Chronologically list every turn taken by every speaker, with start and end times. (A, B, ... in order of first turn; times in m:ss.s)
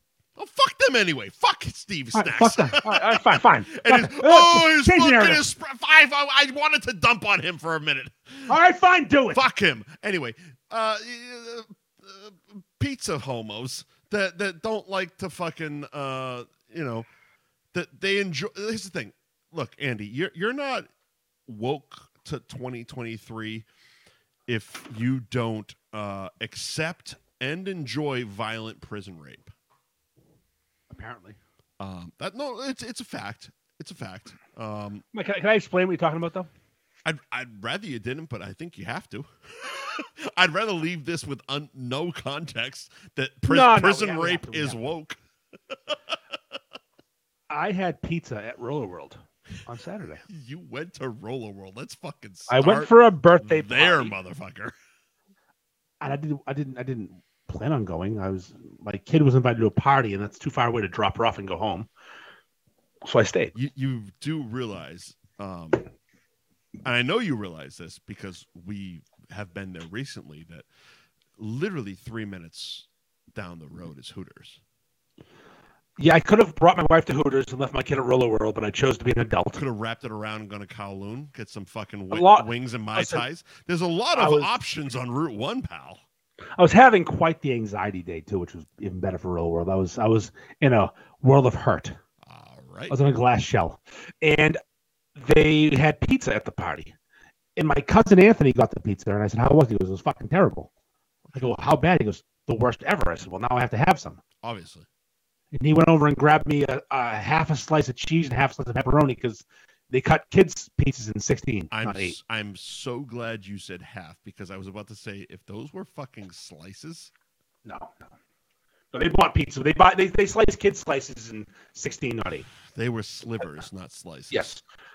0:00.4-0:08.6 A
0:02.1-0:05.4 B
0:08.5-0:09.4 B
0:09.3-0:17.1 A
0:17.7-0:20.9 A
0:21.5-0:23.7 A
0:24.5-0:29.5 A
0:30.9-0:31.4 B
0:31.8-0:35.0 A
0:35.1-0:36.5 B
0:37.0-0:45.2 A
0:43.5-0:44.8 B
0:45.7-0:46.2 A
0:47.5-0:50.2 B
0:50.3-0:54.7 A
0:52.5-0:54.2 B
0:56.0-1:01.9 B
1:03.0-1:03.5 B
1:03.6-1:05.8 A
1:06.8-1:10.7 A
1:11.4-1:14.6 A
1:16.0-1:19.6 B
1:19.6-1:26.0 A
1:22.1-1:23.2 B
1:24.1-1:24.5 B
1:26.6-1:32.0 B
1:32.2-1:33.0 A
1:32.9-1:34.6 B
1:35.2-1:36.9 B
1:37.6-1:40.7 B
1:41.4-1:44.2 B
1:44.4-1:44.9 A
1:45.5-1:52.2 B
1:51.7-1:57.1 A
1:57.6-1:58.0 B
1:58.9-2:02.5 B
2:02.7-2:04.5 A
2:04.3-2:04.6 B